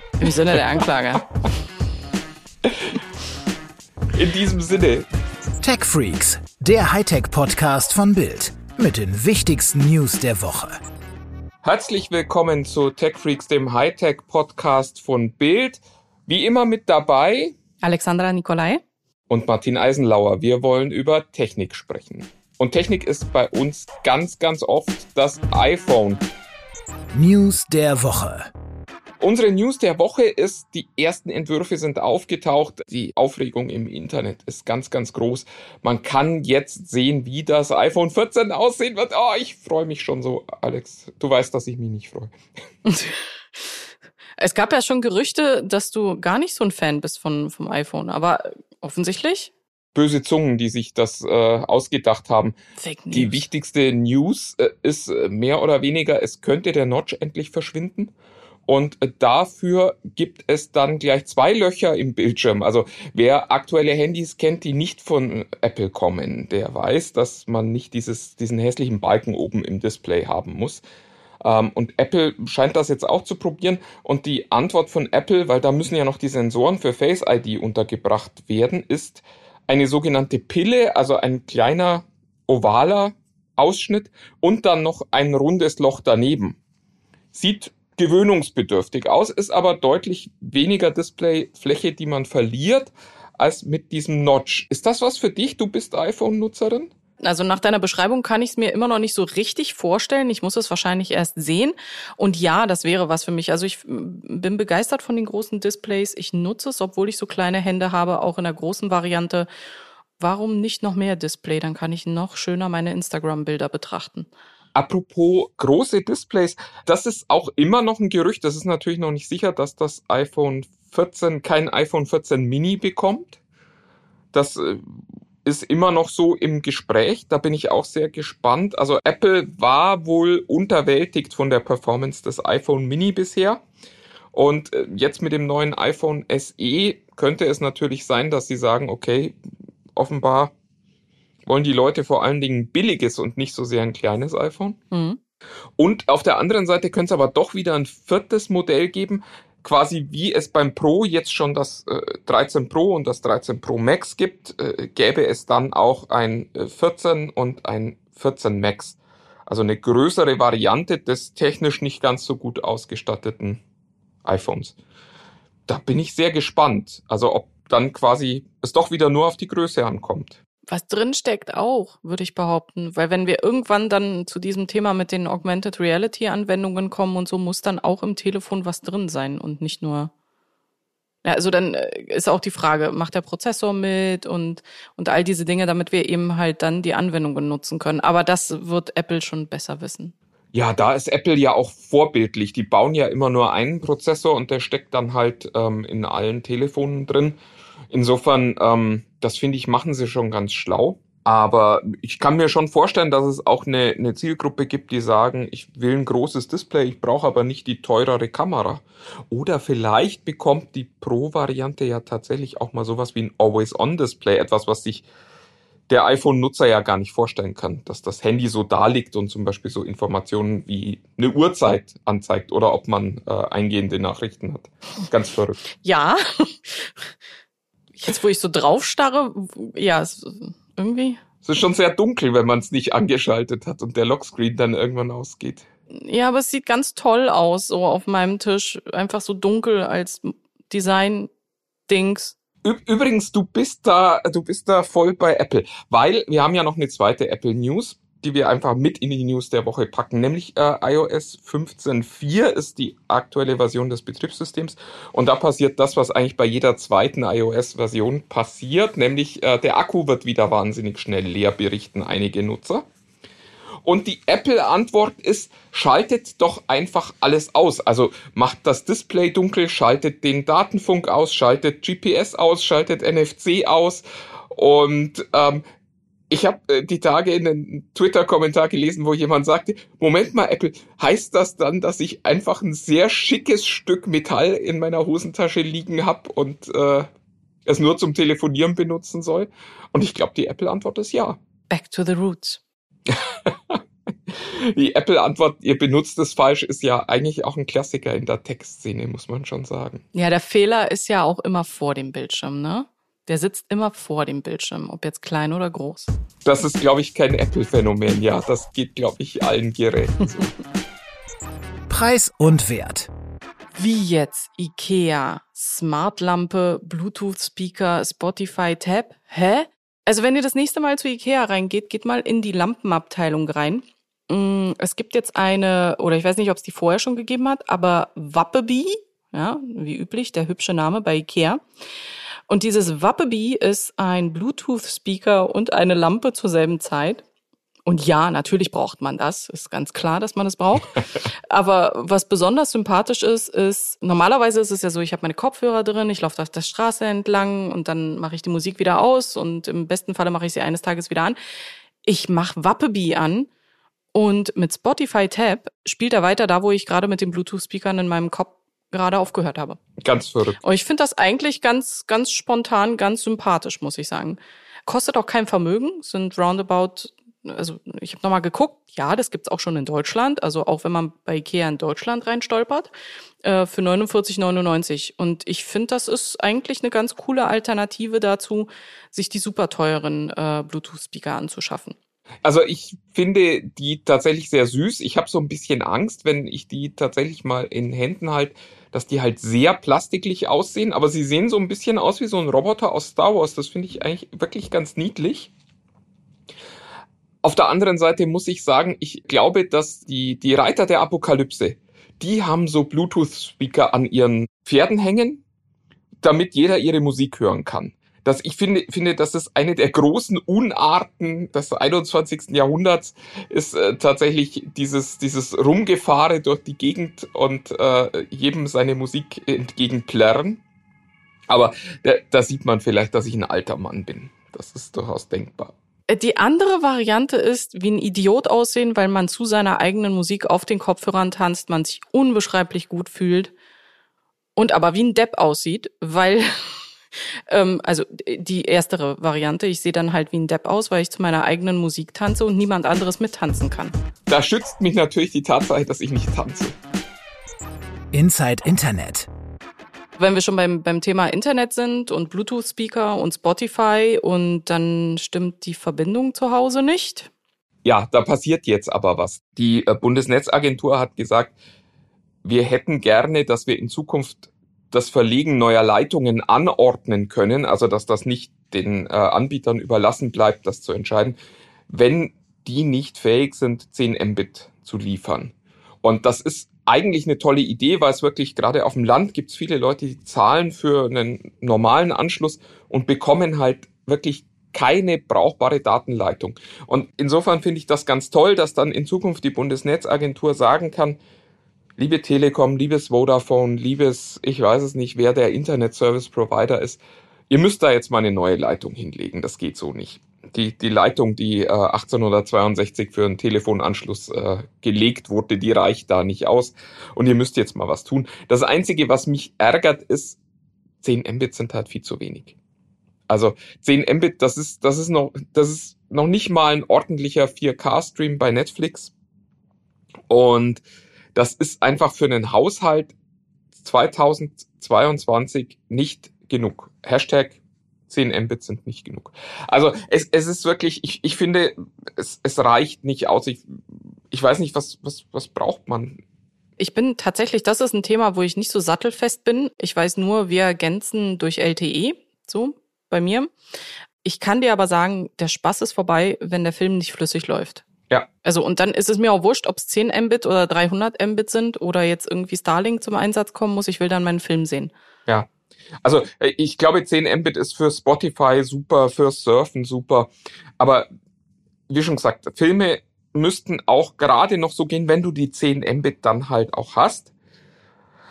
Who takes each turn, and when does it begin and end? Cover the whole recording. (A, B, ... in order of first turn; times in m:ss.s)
0:00.2-0:01.2 A
0:04.1-0:05.1 B
0:05.6-0:10.8 C
0:11.6-0:17.6 B
0:17.8-0:18.8 A
0:19.3-0:26.2 B
0:27.1-0:28.5 C
0:29.2-0:42.3 B
0:42.9-0:43.8 A
0:44.4-0:49.5 A
0:49.9-0:52.5 B
0:52.8-0:53.4 A
0:53.1-0:58.1 B
0:58.7-1:10.8 B
1:11.4-1:26.6 B
1:27.3-1:36.9 B
1:37.2-1:49.5 A
1:50.2-1:54.3 A
1:54.7-2:03.4 B
2:04.3-2:04.8 B
2:05.4-2:13.6 B
2:14.3-2:19.4 B
2:20.0-2:20.5 B
2:21.4-2:24.8 B
2:24.9-2:25.2 A
2:25.8-2:43.6 B
2:44.2-2:44.8 B
2:45.7-2:50.4 B
2:50.7-3:00.1 A
3:01.2-3:10.1 A
3:10.5-3:17.4 B
3:17.9-3:35.0 B
3:35.9-3:45.6 B
3:45.8-3:47.1 A
3:48.0-3:51.2 A
3:51.4-3:55.6 B
3:55.9-4:01.3 A
4:01.9-4:02.4 A
4:02.6-4:22.8 B
4:23.8-4:35.6 B
4:36.3-4:47.1 B
4:47.7-4:51.4 B
4:51.7-4:52.6 A
4:53.1-4:53.8 B
4:54.3-5:00.0 B
5:00.1-5:06.1 A
5:06.4-5:10.5 B
5:11.9-5:13.1 C
5:13.7-5:31.6 A
5:32.5-5:37.2 A
5:37.8-5:51.4 A
5:52.0-5:53.5 A
5:54.1-5:59.8 A
6:00.0-6:00.6 B
6:00.6-6:12.9 A
6:13.4-6:21.9 A
6:22.4-6:35.5 B
6:37.4-6:45.4 B
6:46.2-7:00.6 B
7:01.5-7:05.7 B
7:06.1-7:13.5 A
7:14.6-7:16.8 A
7:17.5-7:24.0 A
7:24.3-7:26.7 B
7:28.1-7:29.3 C
7:30.2-7:37.3 A
7:37.8-7:41.6 B
7:42.4-7:51.4 B
7:51.9-8:11.2 B
8:12.0-8:30.4 B
8:31.0-8:32.5 B
8:33.3-8:39.1 B
8:40.3-8:40.8 B
8:41.3-8:43.1 B
8:43.7-8:53.6 B
8:54.3-8:56.2 B
8:56.8-9:03.5 A
9:04.2-9:07.8 A
9:08.4-9:14.9 A
9:16.0-9:21.1 B
9:21.9-9:27.3 B